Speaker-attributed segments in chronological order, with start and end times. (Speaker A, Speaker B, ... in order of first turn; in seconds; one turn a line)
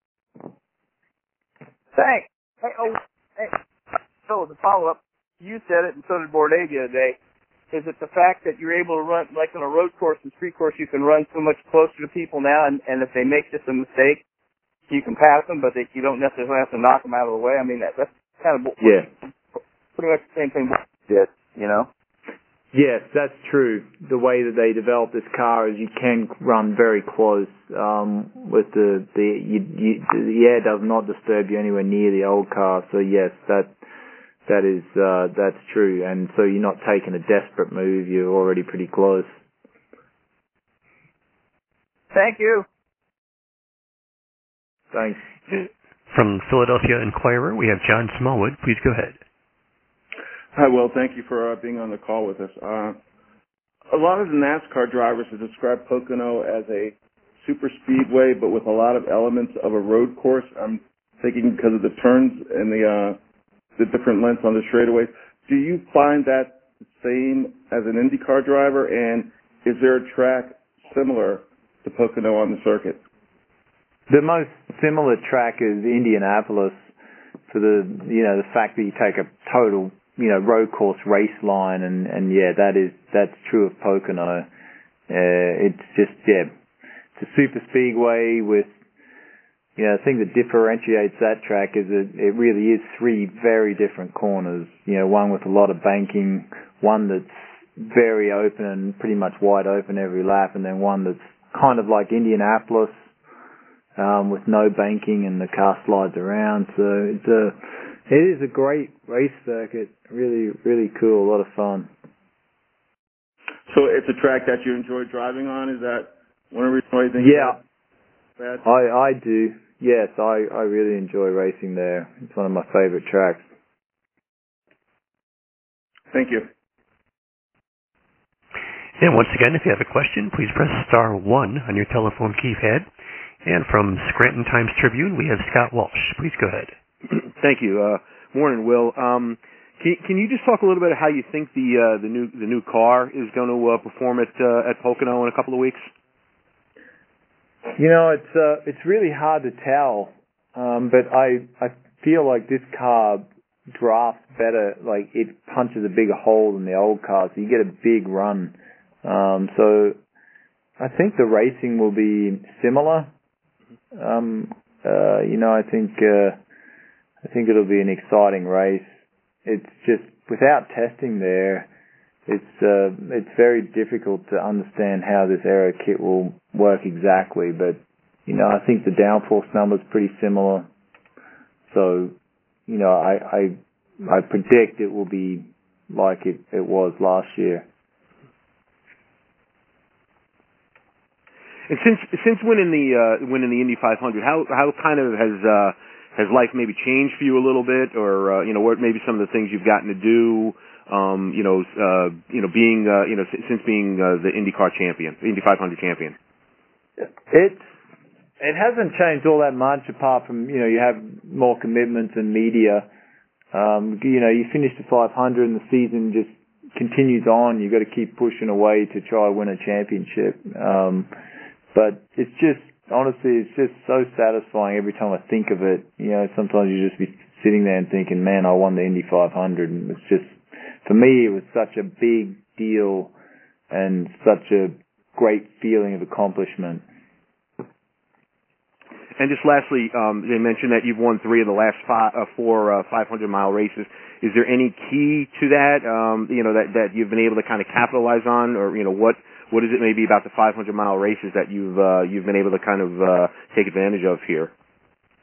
Speaker A: 1.9-7.2
Speaker A: 7.7-14.2
Speaker A: 14.9-19.2
Speaker A: 20.0-21.9
Speaker B: 22.7-33.7
Speaker B: 34.5-39.3
Speaker A: 42.1-42.6
Speaker B: 44.9-45.2
Speaker C: 45.5-49.1
Speaker D: 50.5-53.0
Speaker D: 53.9-63.2
Speaker D: 63.8-73.0
Speaker B: 74.1-76.7
Speaker B: 77.5-84.5
Speaker B: 85.1-86.5
Speaker B: 87.2-88.7
Speaker B: 89.8-102.9
Speaker B: 104.0-107.5
Speaker B: 108.1-111.9
Speaker D: 113.7-117.6
Speaker B: 117.2-117.5
Speaker B: 118.6-123.4
Speaker D: 126.1-126.5
Speaker C: 129.0-132.8
Speaker C: 133.4-136.7
Speaker E: 137.4-145.8
Speaker B: 147.8-159.9
Speaker B: 160.8-163.1
Speaker B: 163.9-166.4
Speaker B: 167.2-168.9
Speaker B: 169.4-171.7
Speaker B: 172.3-180.7
Speaker B: 181.7-182.1
Speaker B: 182.7-187.6
Speaker E: 191.7-206.1
Speaker B: 207.3-207.6
Speaker B: 208.4-212.8
Speaker B: 213.5-221.1
Speaker B: 221.7-233.1
Speaker B: 233.7-236.8
Speaker E: 239.2-254.5